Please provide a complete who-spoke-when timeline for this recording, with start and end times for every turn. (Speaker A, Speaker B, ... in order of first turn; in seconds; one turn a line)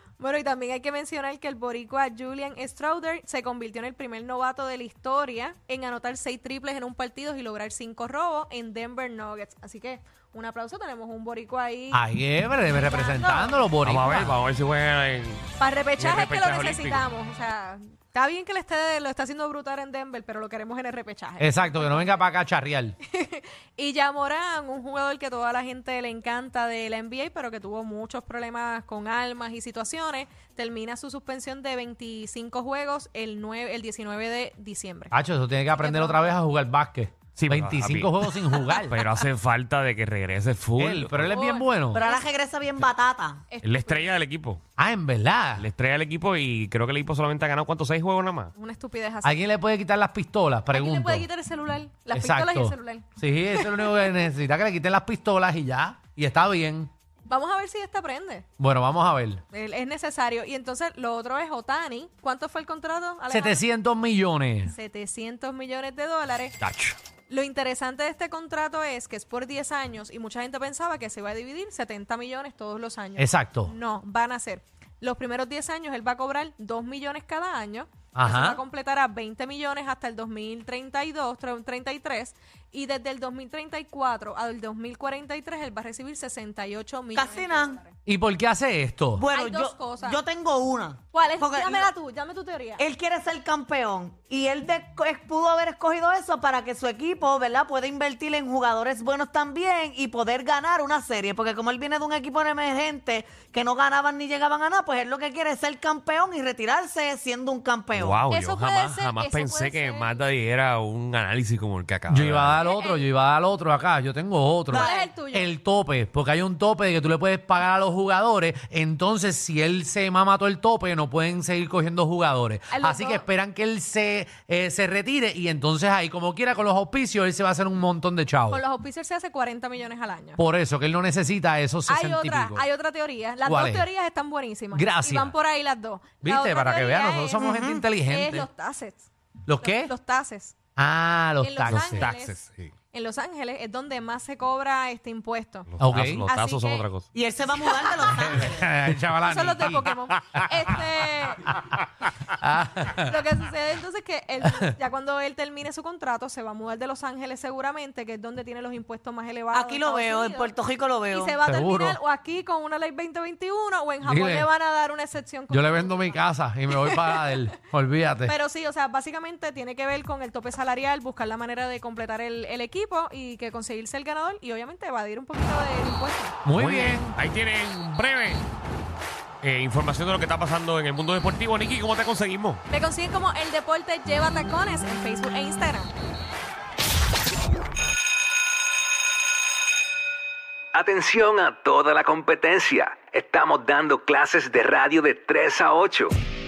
Speaker A: 0.2-12.0
Speaker B: 11.9-14.4
Speaker A: 12.7-13.6
Speaker C: 13.8-17.0
Speaker A: 15.6-22.2
Speaker B: 21.4-23.0
Speaker A: 23.1-35.1
Speaker B: 35.1-39.0
Speaker A: 35.8-36.4
Speaker C: 37.4-41.4
Speaker B: 40.8-42.0
Speaker A: 41.3-42.3
Speaker D: 41.9-43.4
Speaker A: 43.5-44.1
Speaker C: 43.6-44.6
Speaker B: 44.8-45.7
Speaker C: 45.6-48.5
Speaker A: 48.6-49.4
Speaker B: 49.2-51.3
Speaker A: 50.7-54.0
Speaker B: 52.1-56.9
Speaker A: 57.3-58.5
Speaker B: 58.6-59.4
Speaker A: 59.5-63.6
Speaker B: 63.3-64.7
Speaker A: 64.7-66.6
Speaker C: 66.6-67.0
Speaker A: 67.3-87.9
Speaker B: 73.2-73.7
Speaker B: 78.2-78.6
Speaker D: 87.1-87.8
Speaker B: 88.1-89.2
Speaker D: 89.2-91.9
Speaker A: 89.3-90.2
Speaker A: 91.1-92.8
Speaker D: 92.8-108.2
Speaker C: 107.9-112.6
Speaker A: 108.3-110.2
Speaker B: 112.1-128.6
Speaker A: 112.6-113.1
Speaker D: 114.7-115.1
Speaker A: 114.7-115.5
Speaker A: 122.7-123.3
Speaker A: 128.5-130.4
Speaker B: 130.4-132.7
Speaker A: 131.9-139.1
Speaker B: 133.4-133.9
Speaker B: 134.7-135.3
Speaker B: 136.2-138.5
Speaker D: 137.4-137.8
Speaker B: 139.5-139.9
Speaker A: 139.6-140.5
Speaker B: 140.8-142.1
Speaker A: 141.4-142.4
Speaker C: 141.7-142.7
Speaker A: 142.9-145.7
Speaker C: 145.7-147.1
Speaker B: 145.8-146.3
Speaker A: 146.3-146.8
Speaker D: 147.1-148.7
Speaker A: 147.5-148.3
Speaker B: 148.1-149.9
Speaker A: 149.3-151.6
Speaker B: 152.3-153.3
Speaker A: 152.8-160.5
Speaker B: 154.4-154.8
Speaker D: 159.5-161.4
Speaker A: 161.1-167.5
Speaker B: 161.5-162.0
Speaker B: 164.0-164.5
Speaker B: 165.5-168.3
Speaker A: 168.3-176.4
Speaker B: 176.4-177.2
Speaker C: 176.6-178.4
Speaker C: 179.4-182.6
Speaker A: 182.7-185.9
Speaker E: 190.7-196.2